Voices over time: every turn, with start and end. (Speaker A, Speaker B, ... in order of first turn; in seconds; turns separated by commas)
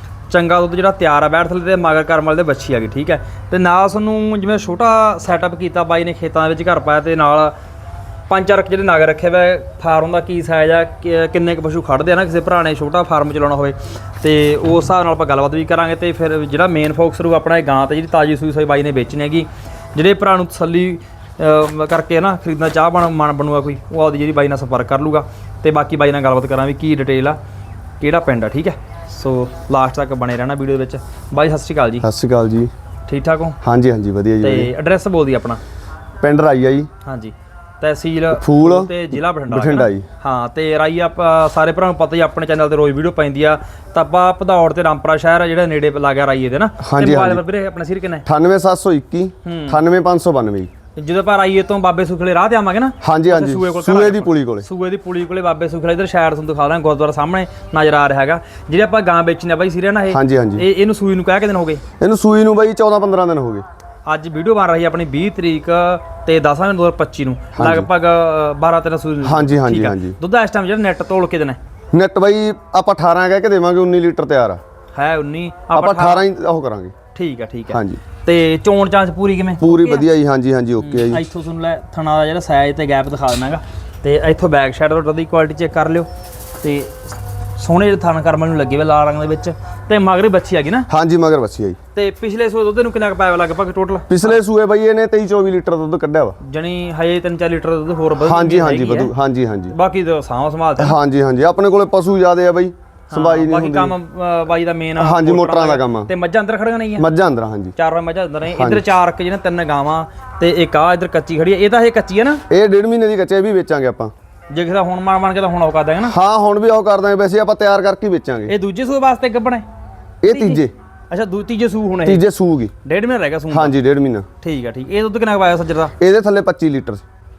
Speaker A: 0.3-7.5, Speaker A: 8.3-27.4, Speaker A: 28.0-32.1, Speaker B: 32.0-32.7, Speaker A: 33.1-33.6, Speaker B: 33.6-34.7, Speaker A: 34.4-35.6, Speaker B: 36.2-36.9, Speaker A: 37.0-48.2, Speaker B: 38.3-40.1, Speaker B: 46.8-47.4, Speaker B: 48.3-50.7, Speaker A: 49.4-49.8, Speaker A: 51.0-61.8, Speaker B: 53.0-54.7, Speaker B: 60.1-60.6, Speaker B: 62.0-63.6, Speaker A: 64.1-71.6, Speaker B: 67.5-67.9, Speaker B: 69.2-70.2, Speaker B: 71.9-74.6, Speaker A: 75.0-76.3, Speaker B: 75.7-77.0, Speaker A: 77.1-80.1, Speaker B: 77.7-78.0, Speaker B: 79.6-81.2, Speaker A: 80.8-86.1, Speaker A: 86.6-87.0, Speaker A: 87.6-90.9, Speaker B: 90.9-91.8, Speaker A: 92.0-94.4, Speaker B: 94.1-96.4, Speaker A: 96.4-99.1, Speaker B: 98.2-99.7, Speaker A: 99.7-101.0, Speaker B: 100.8-104.0, Speaker A: 103.1-107.1, Speaker B: 105.0-106.1, Speaker B: 107.0-107.8, Speaker A: 107.8-112.4, Speaker B: 108.5-108.8, Speaker B: 112.5-114.1, Speaker A: 114.5-116.2, Speaker B: 116.1-118.5, Speaker A: 118.5-119.7, Speaker B: 120.2-120.7, Speaker A: 120.3-122.2, Speaker B: 122.0-122.7, Speaker A: 122.8-123.8, Speaker B: 123.5-124.3, Speaker A: 124.4-125.9, Speaker B: 126.0-127.0